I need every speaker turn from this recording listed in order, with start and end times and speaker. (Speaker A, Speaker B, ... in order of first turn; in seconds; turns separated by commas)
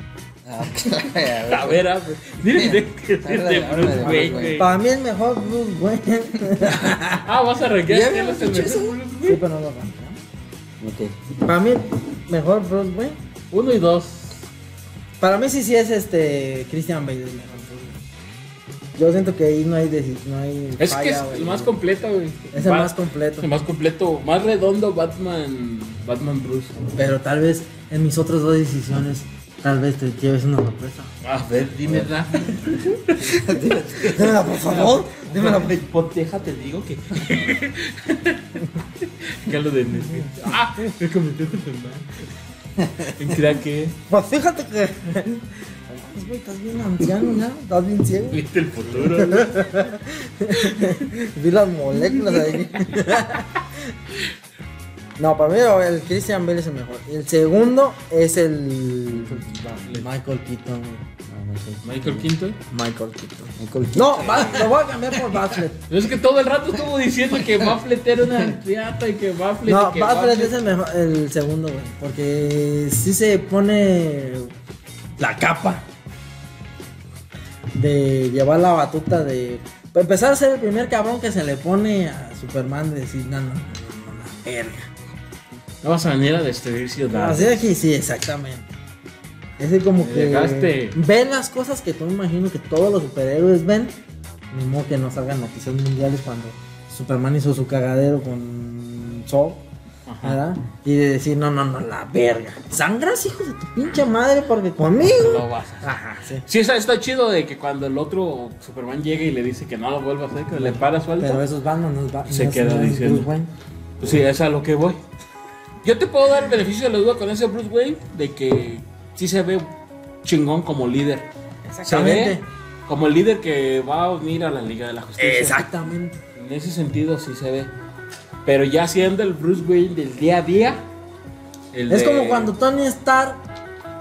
Speaker A: 0.4-1.8, Speaker B: 1.4-4.7, Speaker A: 2.4-4.6, Speaker C: 4.0-7.2, Speaker B: 7.2-9.4, Speaker A: 7.9-9.0, Speaker C: 9.2-10.2, Speaker A: 10.8-11.1, Speaker C: 11.4-13.2, Speaker B: 13.5-14.4, Speaker C: 15.2-18.0, Speaker C: 18.9-21.7, Speaker B: 20.8-26.8, Speaker C: 22.5-23.5, Speaker C: 26.9-31.1, Speaker B: 31.2-42.1, Speaker A: 33.3-34.4, Speaker C: 34.0-35.8, Speaker C: 40.1-40.4, Speaker A: 42.8-43.1, Speaker B: 43.0-44.0, Speaker C: 44.1-53.6, Speaker B: 48.3-49.7, Speaker B: 50.6-51.0, Speaker B: 52.1-52.6, Speaker C: 55.2-61.0, Speaker A: 59.1-59.9, Speaker B: 59.8-60.1, Speaker A: 61.3-62.3, Speaker B: 61.8-62.6, Speaker C: 62.7-65.9, Speaker A: 63.6-64.7, Speaker B: 64.2-64.7, Speaker B: 65.9-70.5, Speaker C: 69.7-74.5, Speaker C: 75.2-75.8, Speaker C: 77.7-84.9, Speaker B: 85.8-87.6, Speaker C: 87.0-88.7, Speaker C: 89.6-94.0, Speaker B: 90.0-91.0, Speaker C: 94.5-99.7, Speaker B: 100.1-100.4, Speaker C: 100.2-106.5, Speaker B: 105.0-111.4, Speaker C: 110.5-113.5, Speaker B: 112.3-113.3, Speaker B: 114.0-115.0, Speaker B: 115.8-119.7, Speaker B: 120.2-121.3, Speaker C: 121.7-122.5, Speaker B: 121.8-125.7, Speaker C: 125.2-126.2, Speaker B: 126.3-127.7, Speaker B: 128.4-130.9, Speaker B: 131.7-132.5, Speaker C: 131.9-133.4